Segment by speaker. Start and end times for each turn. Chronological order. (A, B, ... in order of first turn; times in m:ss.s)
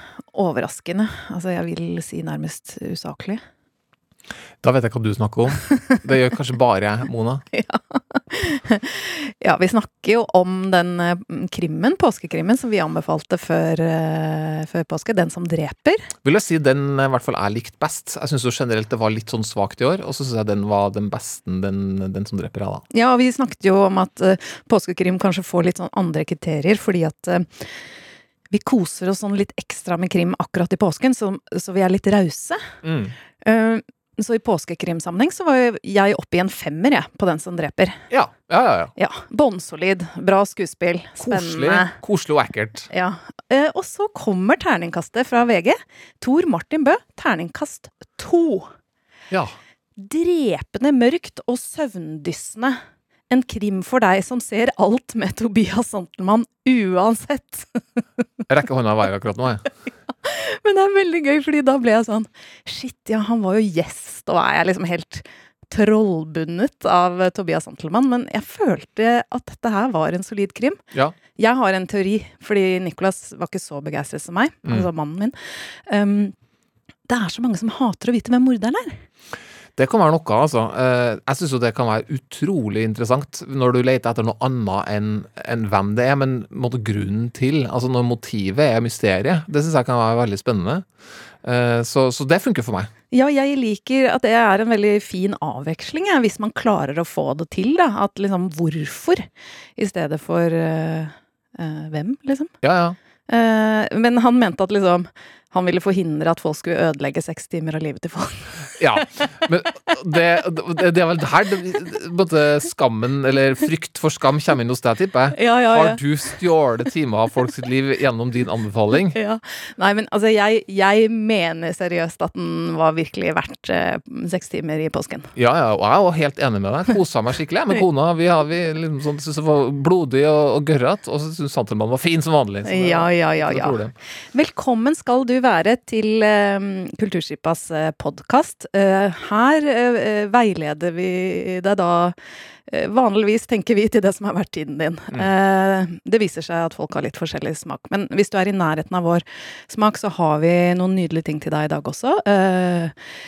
0:00.3-0:03.4 A
0:04.6-0:07.4 B
0:07.5-0:16.1 A
0:16.2-0:22.8 B
0:22.9-0:27.7 A
0:28.5-0:32.6 A
0:32.8-0:33.1 B
0:33.4-0:38.0 A
0:38.1-0:38.9 B
0:39.0-0:41.9 A
0:41.2-0:42.9 B
0:42.9-0:48.7 A
0:50.0-0:57.8 A
0:58.5-0:59.6 B
1:00.2-1:10.8 A
1:11.4-1:15.4 A
1:15.9-1:16.3 A
1:17.1-1:19.0 A
1:19.8-1:30.8 B
1:31.4-1:32.9 B
1:33.1-1:42.5 A
1:42.6-1:43.0 B
1:43.3-1:48.5 A
1:48.8-1:59.2 B
1:55.3-1:56.0 A
1:59.1-2:05.3 A
2:05.4-2:13.9 B
2:12.6-2:13.8 A
2:14.3-2:22.1 A
2:22.7-2:32.9 A